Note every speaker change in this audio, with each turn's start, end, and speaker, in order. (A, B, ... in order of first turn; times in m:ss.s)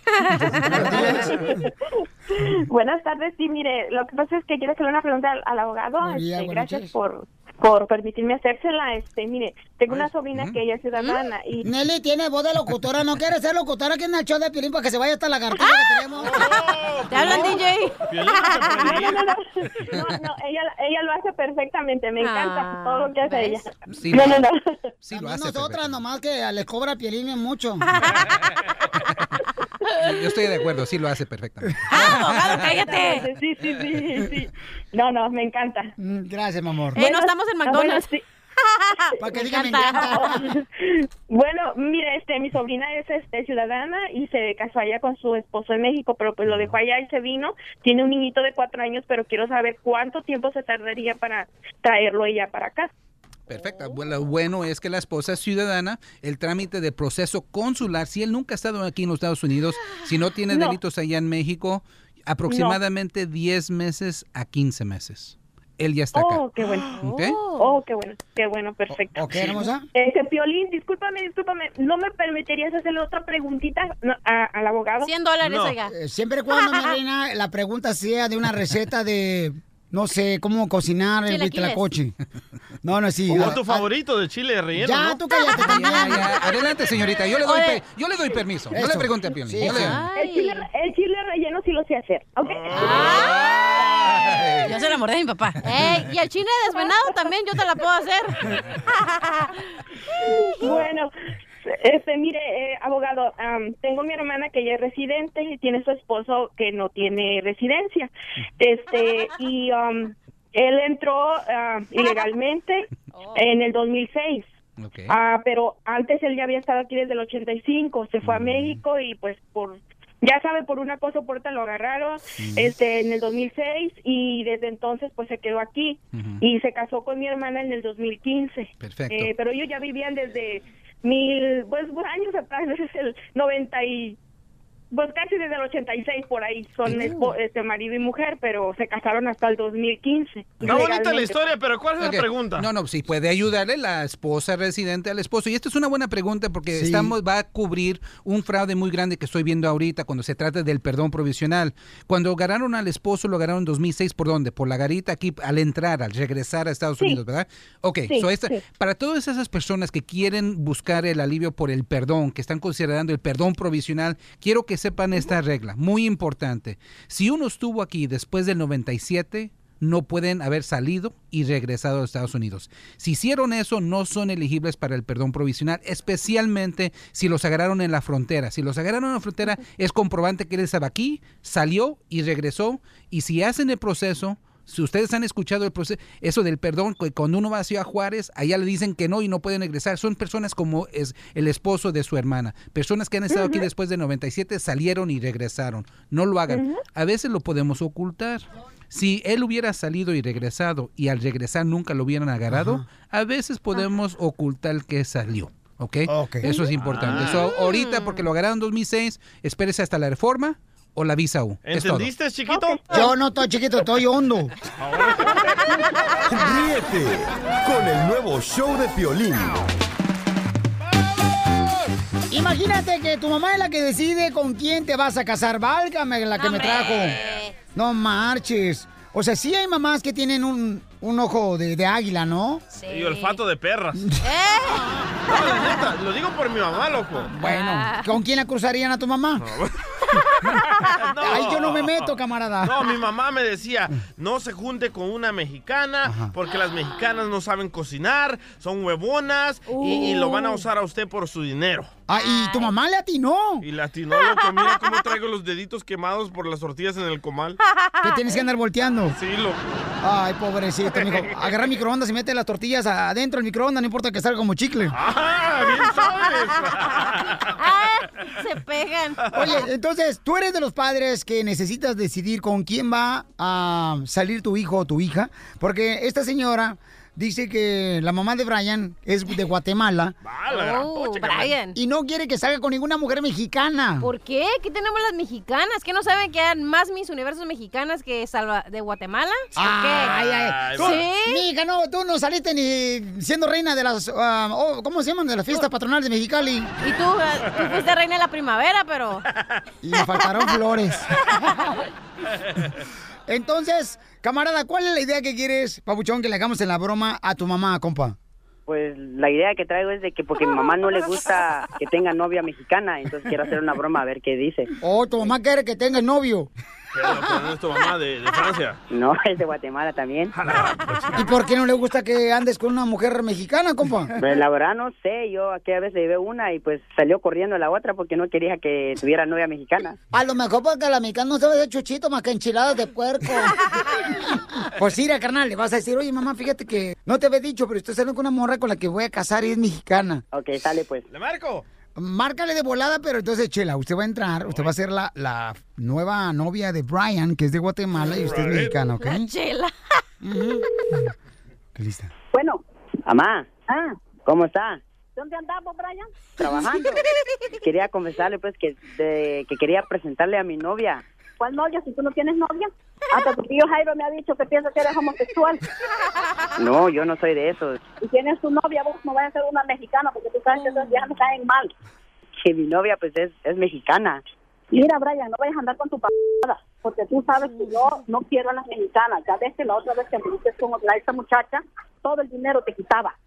0:00.5-0:01.5 A
0:01.0-0:01.2 B
0:02.7-0:11.7 B
0:06.0-0:06.9 A
0:10.9-0:11.2 C
0:11.6-0:16.5 A
0:15.6-0:16.6 C
0:16.2-0:19.2 D
0:17.1-0:19.0 C
0:18.9-0:24.7 B
0:22.2-0:23.6 C
0:23.9-0:24.4 E
0:25.0-0:26.0 E
0:25.1-0:27.9 A
0:27.9-0:28.3 C
0:30.0-0:32.7 E
0:31.9-0:33.3 C
0:32.9-0:35.9 B
0:36.0-0:37.0 A
0:36.9-0:38.1 C
0:37.0-0:38.2 B
0:38.6-0:40.4 C
0:39.2-0:40.4 A
0:40.0-0:52.9 B
0:53.5-1:06.4 E
1:00.5-1:00.8 B
1:02.5-1:02.8 B
1:06.1-1:07.0 B
1:06.9-1:07.8 C
1:07.0-1:07.4 E
1:07.5-1:15.1 B
1:09.2-1:09.8 A
1:15.0-1:15.9 C
1:15.4-1:15.8 D
1:15.8-1:22.1 A
1:16.6-1:16.9 C
1:21.2-1:21.8 C
1:22.8-1:23.9 A
1:23.3-1:25.2 D
1:24.8-1:26.3 A
1:25.4-1:26.3 C
1:25.6-1:30.0 E
1:27.4-1:27.8 C
1:28.7-1:30.0 A
1:29.7-1:30.6 C
1:30.1-1:33.1 B
1:32.4-1:33.4 D
1:32.7-1:33.8 C
1:33.1-1:34.7 E
1:34.6-1:39.5 C
1:40.6-1:41.1 B
1:41.6-1:54.5 B
1:53.1-1:53.4 C
1:54.8-1:55.1 E
1:55.1-2:14.2 B
2:08.8-2:09.3 E
2:14.9-2:21.4 B
2:20.6-2:22.7 D
2:22.0-3:32.1 E
2:26.7-2:27.1 A
3:13.3-3:13.6 B
3:16.5-3:16.8 B
3:22.5-3:22.8 A
3:26.1-3:26.5 A
3:26.8-3:27.5 D
3:27.3-3:28.2 C
3:31.6-3:32.8 D
3:32.9-3:34.5 A
3:34.8-3:35.6 D
3:36.3-3:39.6 F
3:42.3-3:47.2 A
3:46.3-3:47.6 C
3:47.7-3:52.6 A
3:52.7-3:53.4 C
3:52.9-3:54.0 D
3:54.2-3:55.0 C
3:55.3-3:57.3 D
3:57.3-3:59.5 A
3:57.4-3:58.1 C
3:59.4-3:59.7 D
4:01.0-4:11.9 D
4:01.2-4:02.8 A
4:06.0-4:06.3 A
4:09.7-4:10.6 C
4:12.1-4:13.6 A
4:12.1-4:12.7 C
4:13.6-4:17.6 D
4:14.1-4:14.8 C
4:17.7-4:18.2 C
4:18.0-4:19.2 A
4:19.1-4:19.9 D
4:20.0-4:25.0 A
4:20.9-4:21.6 D
4:24.9-4:27.4 D
4:27.6-4:29.6 C
4:29.3-4:40.1 A
4:40.2-4:41.6 D
4:40.5-4:41.8 C
4:41.7-4:44.1 A
4:44.0-4:50.2 C
4:49.6-4:56.7 A
4:50.0-4:51.1 D
4:50.7-4:51.4 C
4:56.8-4:59.2 C
4:59.8-5:01.3 A
5:03.3-5:08.2 A
5:08.7-5:14.7 G
5:14.8-5:16.5 A
5:16.9-5:18.8 D
5:18.9-5:20.3 G
5:20.4-5:21.2 D
5:21.1-5:24.1 A
5:24.2-5:30.0 G
5:30.1-5:40.2 A
5:40.3-5:41.0 G
5:41.1-5:41.6 D
5:42.0-5:49.3 A
5:48.0-5:48.8 D
5:49.0-5:49.8 C
5:50.2-5:50.6 A
5:51.7-5:52.1 A
5:52.3-5:52.6 H
5:53.0-5:53.5 G
5:53.7-5:54.0 H
5:54.2-5:54.8 G
5:55.2-5:56.1 H
5:56.4-5:57.0 G
5:57.6-6:01.0 G
6:01.4-6:05.6 H
6:06.6-6:07.8 G
6:08.0-6:11.7 H
6:10.6-6:11.0 C
6:12.4-6:14.2 G
6:14.7-6:23.1 H